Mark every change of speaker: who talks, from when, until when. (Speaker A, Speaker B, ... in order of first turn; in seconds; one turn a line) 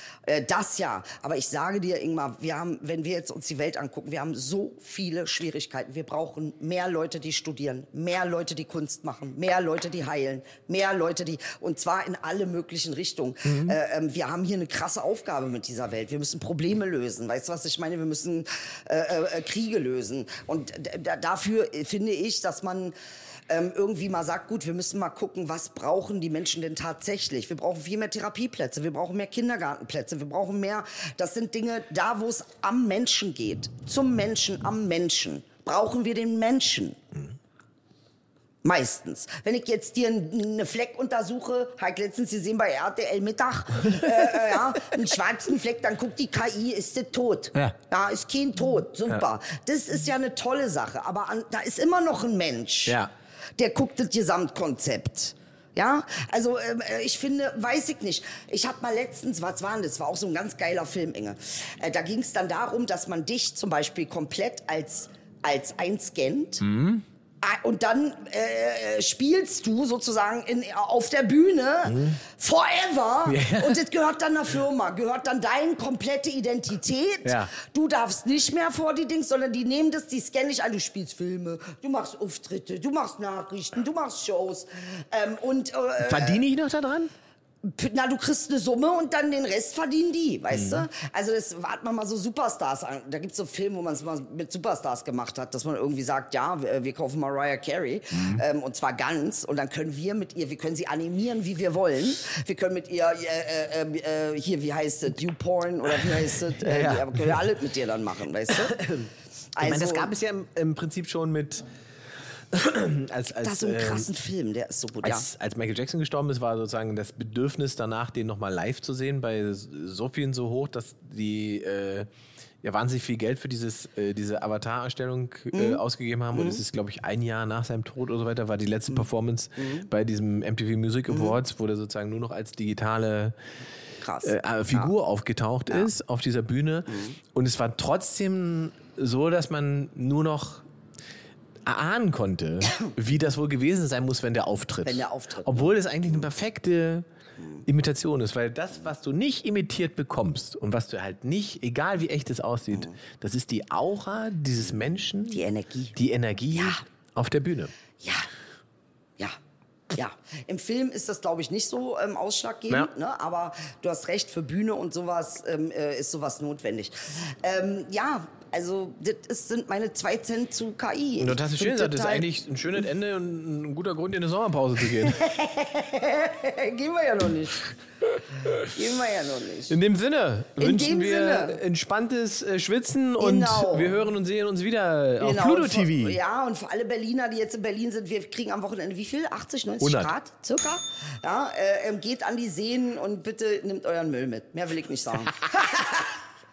Speaker A: 0.2-22.9
Speaker B: 13.4-13.8
Speaker A: 23.5-37.0
Speaker A: 38.6-53.0
Speaker A: 53.6-66.7
Speaker B: 66.6-67.0
Speaker A: 67.4-86.4
Speaker B: 71.9-72.2
Speaker B: 73.2-73.8
Speaker B: 77.2-77.5
Speaker B: 86.0-87.1
Speaker A: 87.6-109.0
Speaker B: 90.5-90.8
Speaker B: 106.5-107.4
Speaker B: 108.5-109.1
Speaker A: 109.5-110.1
Speaker B: 109.6-111.6
Speaker B: 112.5-114.1
Speaker A: 113.4-115.3
Speaker B: 115.0-122.1
Speaker B: 122.6-133.3
Speaker A: 125.5-125.8
Speaker A: 129.6-129.9
Speaker A: 134.0-134.9
Speaker B: 134.2-140.7
Speaker B: 141.6-147.1
Speaker A: 144.8-145.7
Speaker B: 147.7-155.4
Speaker A: 155.3-155.9
Speaker B: 155.9-157.7
Speaker A: 156.5-156.8
Speaker A: 158.0-158.3
Speaker A: 159.9-172.2
Speaker B: 171.2-175.3
Speaker A: 175.0-177.6
Speaker A: 178.5-179.8
Speaker B: 179.7-186.2
Speaker A: 180.6-181.6
Speaker A: 183.2-184.0
Speaker A: 185.2-196.2
Speaker B: 189.8-190.1